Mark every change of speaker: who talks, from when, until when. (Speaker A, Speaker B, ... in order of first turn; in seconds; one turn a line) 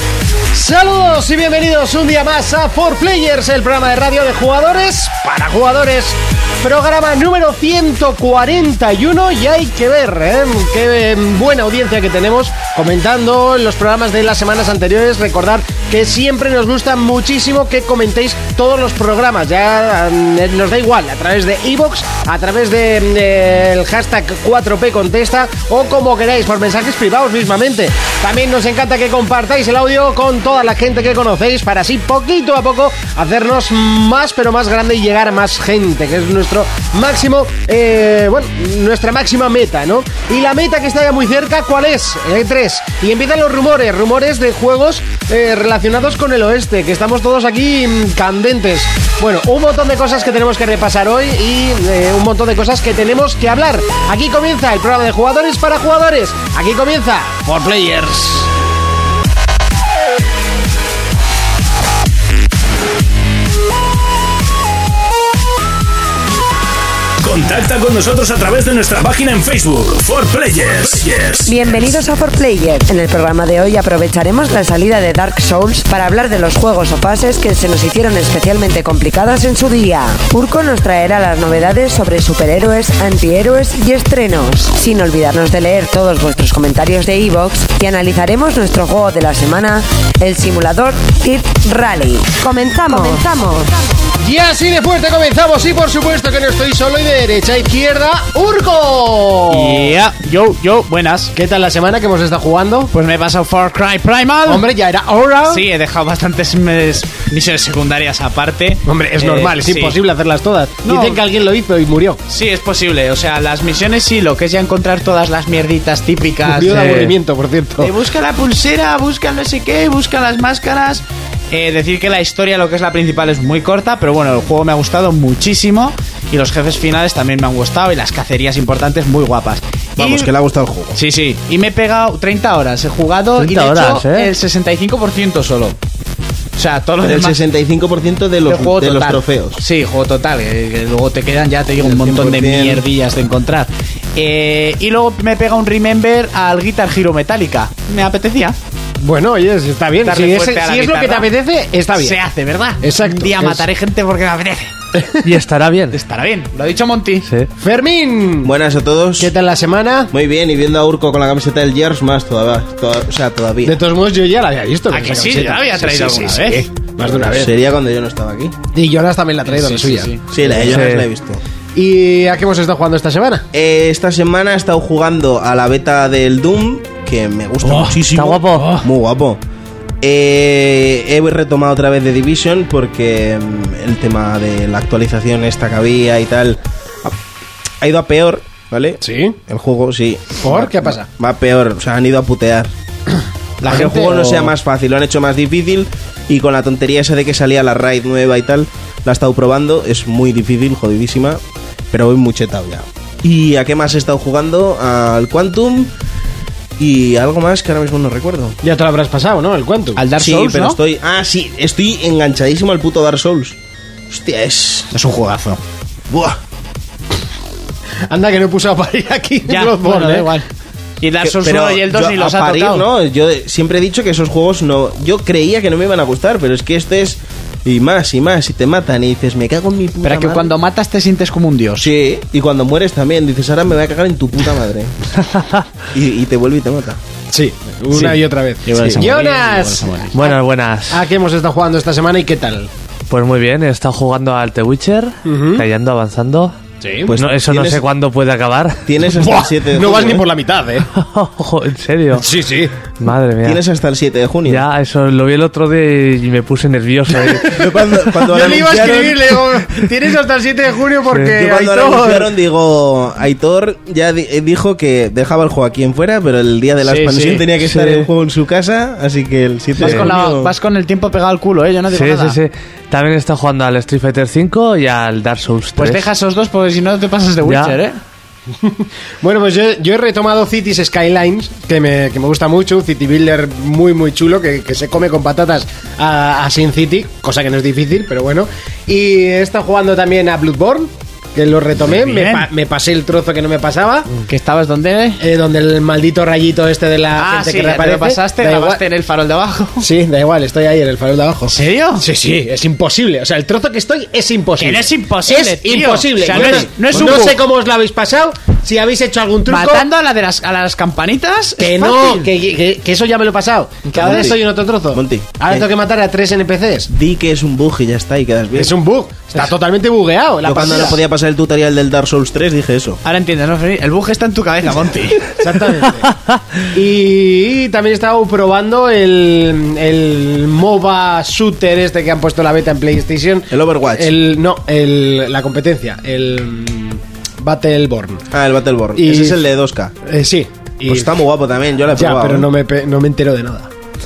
Speaker A: 0.5-58.5
Speaker B: 67.2-71.6
Speaker C: 71.5-93.8
Speaker A: 94.2-100.0
Speaker D: 99.5-101.3
Speaker A: 101.3-102.9
Speaker D: 102.9-104.7
Speaker A: 104.5-105.7
Speaker D: 105.5-110.0
Speaker A: 108.9-112.2
Speaker D: 110.8-111.2
Speaker D: 112.3-117.0
Speaker A: 116.5-117.9
Speaker E: 116.7-117.1
Speaker D: 117.8-130.3
Speaker F: 130.0-131.0
Speaker D: 130.9-135.8
Speaker E: 133.4-134.3
Speaker D: 136.6-137.4
Speaker F: 137.0-139.6
Speaker D: 138.5-148.6
Speaker F: 141.8-142.8
Speaker A: 149.0-152.2
Speaker D: 150.0-151.3
Speaker D: 151.9-154.7
Speaker A: 152.8-153.7
Speaker A: 155.0-155.3
Speaker E: 155.2-156.0
Speaker D: 155.9-157.3
Speaker A: 157.6-158.5
Speaker F: 158.4-159.3
Speaker A: 159.2-160.1
Speaker F: 160.1-163.8
Speaker A: 163.6-167.5
Speaker D: 164.9-166.7
Speaker F: 167.1-168.6
Speaker A: 168.7-170.8
Speaker D: 169.5-170.2
Speaker F: 170.3-171.4
Speaker E: 170.7-171.1
Speaker A: 171.7-173.5
Speaker F: 173.5-179.4
Speaker E: 178.1-178.8
Speaker F: 180.0-187.2
Speaker F: 187.8-192.7
Speaker A: 189.0-189.4
Speaker A: 190.4-191.1
Speaker D: 193.6-194.5
Speaker F: 193.7-205.9
Speaker F: 206.8-208.6
Speaker A: 208.6-210.0
Speaker D: 210.0-210.8
Speaker F: 210.2-213.6
Speaker F: 214.1-214.9
Speaker D: 214.9-215.6
Speaker F: 216.1-216.4
Speaker A: 218.1-220.3
Speaker D: 219.4-220.5
Speaker D: 221.0-222.9
Speaker F: 221.2-230.5
Speaker D: 230.0-231.9
Speaker F: 231.8-235.1
Speaker E: 235.3-235.7
Speaker F: 235.9-237.0
Speaker A: 237.3-240.4
Speaker D: 237.9-240.2
Speaker F: 238.8-239.1
Speaker E: 240.1-241.0
Speaker A: 240.9-242.7
Speaker E: 243.1-246.6
Speaker A: 245.2-245.7
Speaker A: 246.8-247.1
Speaker F: 247.1-247.8
Speaker E: 247.2-248.9
Speaker F: 248.9-250.2
Speaker A: 249.2-250.9
Speaker E: 251.0-252.3
Speaker A: 252.2-252.7
Speaker E: 252.9-253.6
Speaker F: 253.4-254.7
Speaker E: 254.5-257.6
Speaker F: 257.4-259.8
Speaker A: 258.1-262.3
Speaker F: 261.3-270.5
Speaker D: 266.8-268.1
Speaker D: 269.8-272.4
Speaker E: 269.8-270.1
Speaker E: 271.9-276.0
Speaker D: 275.8-278.0
Speaker E: 277.4-277.8
Speaker A: 278.6-294.1
Speaker D: 291.9-292.5
Speaker D: 294.3-295.2
Speaker A: 295.2-298.8
Speaker D: 297.2-299.9
Speaker A: 299.8-309.9
Speaker D: 301.5-302.1
Speaker D: 304.6-307.4
Speaker D: 309.5-312.3
Speaker A: 311.6-316.9
Speaker D: 313.9-314.3
Speaker F: 313.9-315.7
Speaker F: 316.9-318.7
Speaker A: 318.6-321.0
Speaker F: 320.4-323.0
Speaker D: 323.1-325.3
Speaker A: 325.4-338.3
Speaker F: 333.5-334.1
Speaker F: 338.3-339.9
Speaker A: 339.0-339.4
Speaker A: 340.1-341.2
Speaker F: 340.9-342.5
Speaker A: 341.9-343.7